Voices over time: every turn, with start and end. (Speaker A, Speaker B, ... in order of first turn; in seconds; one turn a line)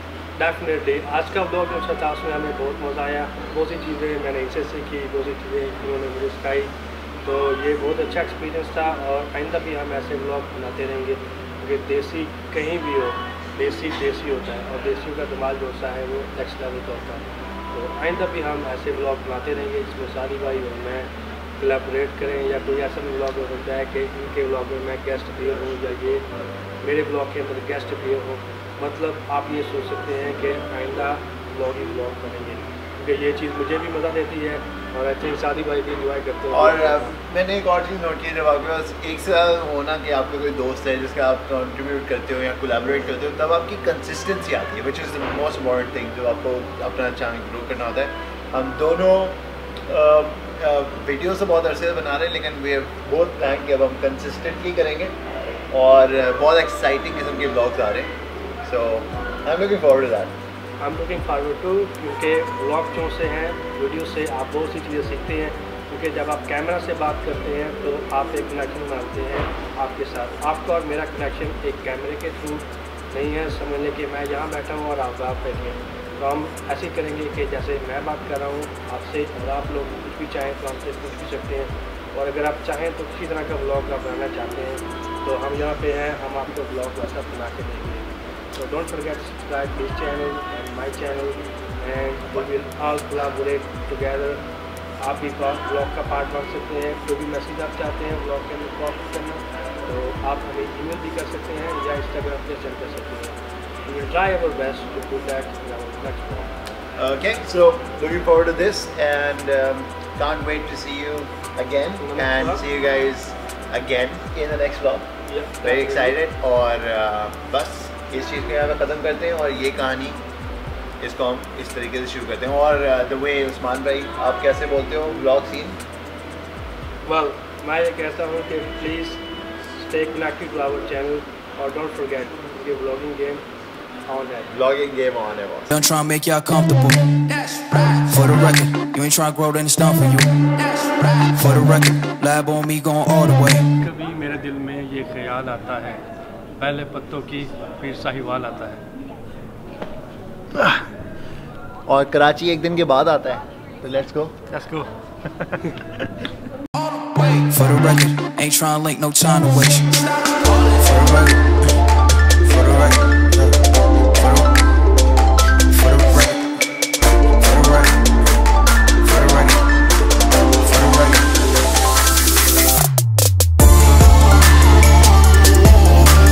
Speaker A: 0.4-26.3
Speaker A: 26.8-37.1
Speaker B: 36.5-55.2
Speaker B: 55.7-60.4
Speaker A: 60.8-94.5
Speaker A: 95.0-106.5
Speaker B: 107.0-115.1
Speaker A: 112.0-112.7
Speaker A: 115.3-116.2
Speaker B: 115.6-120.2
Speaker B: 121.0-125.8
Speaker A: 127.0-133.5
Speaker A: 134.1-134.5
Speaker B: 134.5-135.7
Speaker C: 135.7-143.7
Speaker A: 143.8-146.0
Speaker A: 146.6-148.8
Speaker B: 150.5-150.8
Speaker B: 151.9-154.3
Speaker A: 154.5-156.0
Speaker C: 157.3-160.0
Speaker C: 160.7-161.5
Speaker C: 162.5-163.2
Speaker C: 165.9-166.3
Speaker C: 167.5-167.8
Speaker C: 169.1-169.4